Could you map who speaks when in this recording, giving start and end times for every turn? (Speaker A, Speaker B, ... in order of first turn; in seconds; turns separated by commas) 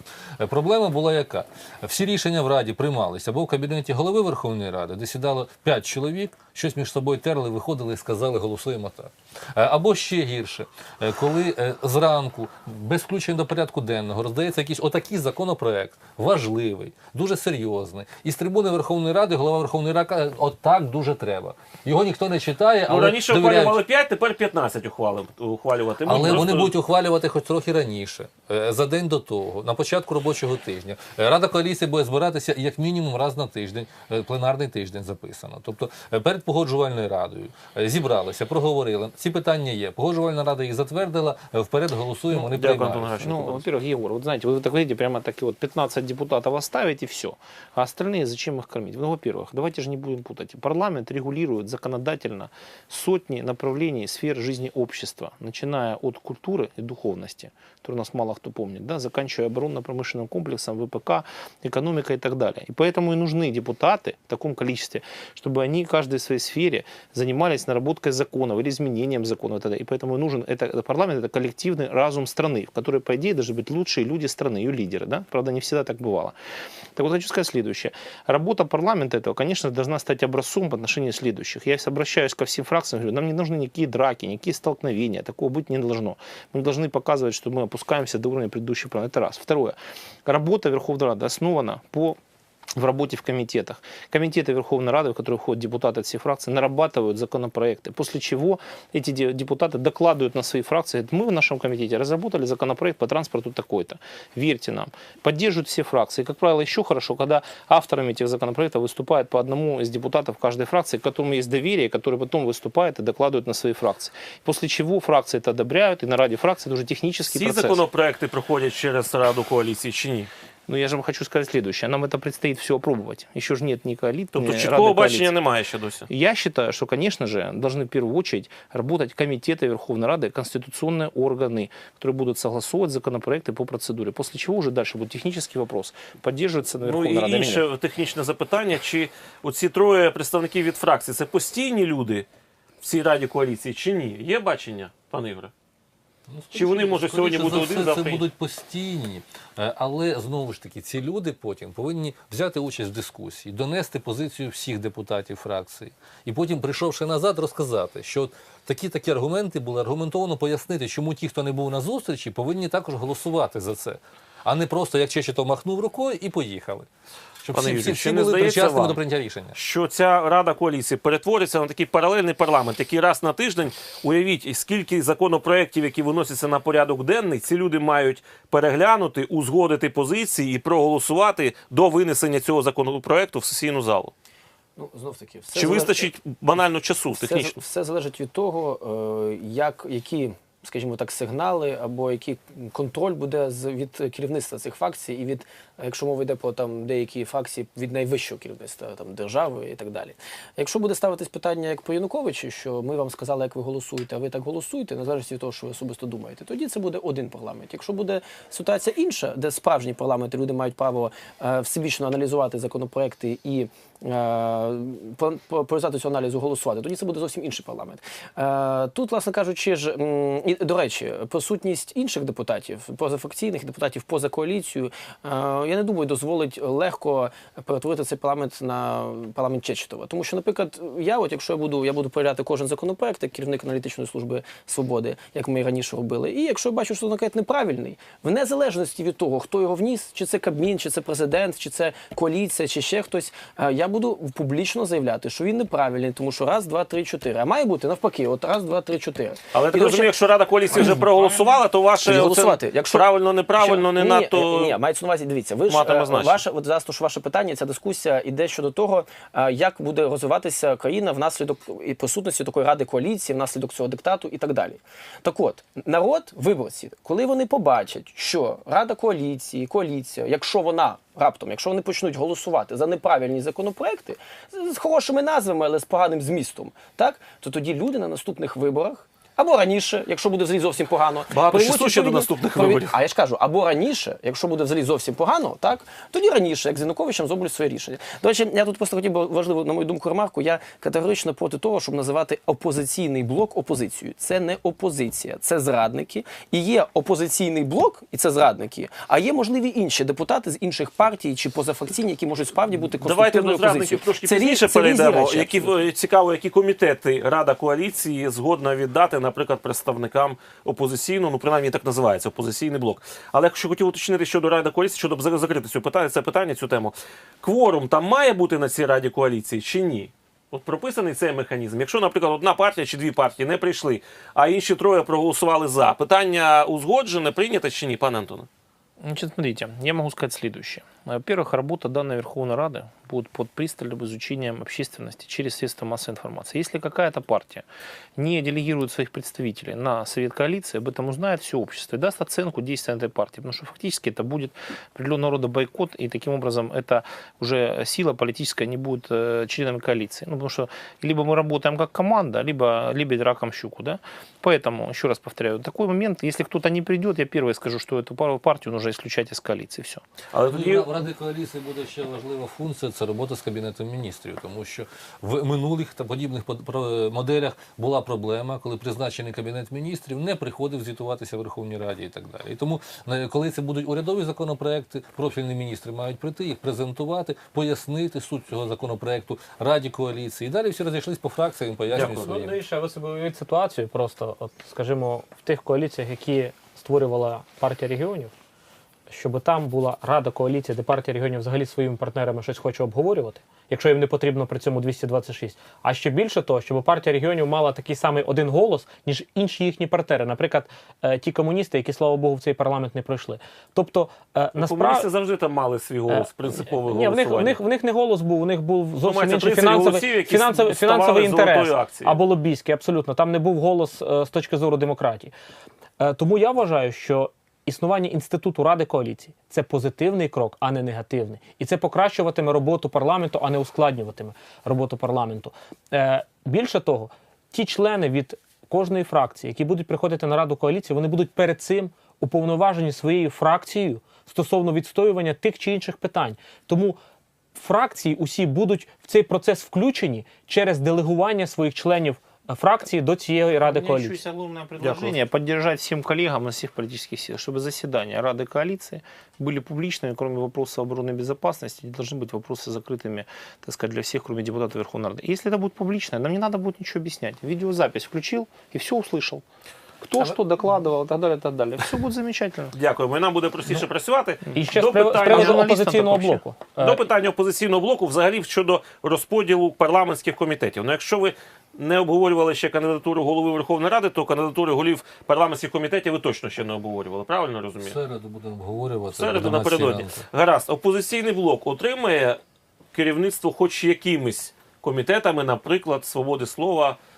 Speaker A: 0.4-23.8, Speaker B: 22.9-26.7, Speaker A: 26.0-43.5, Speaker B: 42.3-43.6, Speaker C: 43.2-76.3, Speaker C: 77.0-92.2, Speaker C: 92.8-117.8, Speaker B: 117.2-120.3, Speaker C: 120.7-125.3, Speaker B: 124.3-126.0, Speaker C: 126.1-137.7, Speaker B: 136.8-142.2, Speaker B: 142.8-145.5, Speaker A: 146.3-166.9, Speaker B: 146.5-148.2, Speaker A: 167.4-169.5, Speaker B: 167.5-169.0, Speaker B: 169.5-184.1, Speaker D: 184.8-186.1, Speaker B: 185.5-187.6, Speaker D: 187.2-250.1, Speaker B: 249.5-254.8, Speaker C: 250.9-251.3, Speaker D: 251.9-305.7, Speaker B: 255.7-256.4, Speaker B: 281.3-282.9, Speaker B: 302.8-328.5, Speaker C: 329.0-337.6, Speaker C: 338.2-360.0, Speaker B: 360.3-360.9, Speaker A: 360.4-382.5, Speaker B: 381.9-382.3, Speaker E: 381.9-388.3, Speaker E: 389.1-405.1, Speaker B: 404.6-407.6, Speaker E: 406.1-415.3, Speaker B: 409.0-412.2, Speaker E: 416.0-437.0, Speaker E: 437.5-444.2, Speaker C: 443.6-459.4, Speaker B: 444.8-445.1, Speaker C: 460.0-462.7, Speaker B: 462.7-465.6, Speaker E: 464.5-467.0, Speaker C: 465.2-466.4, Speaker B: 466.8-478.0, Speaker A: 477.8-480.2, Speaker B: 479.1-482.4, Speaker B: 482.9-487.0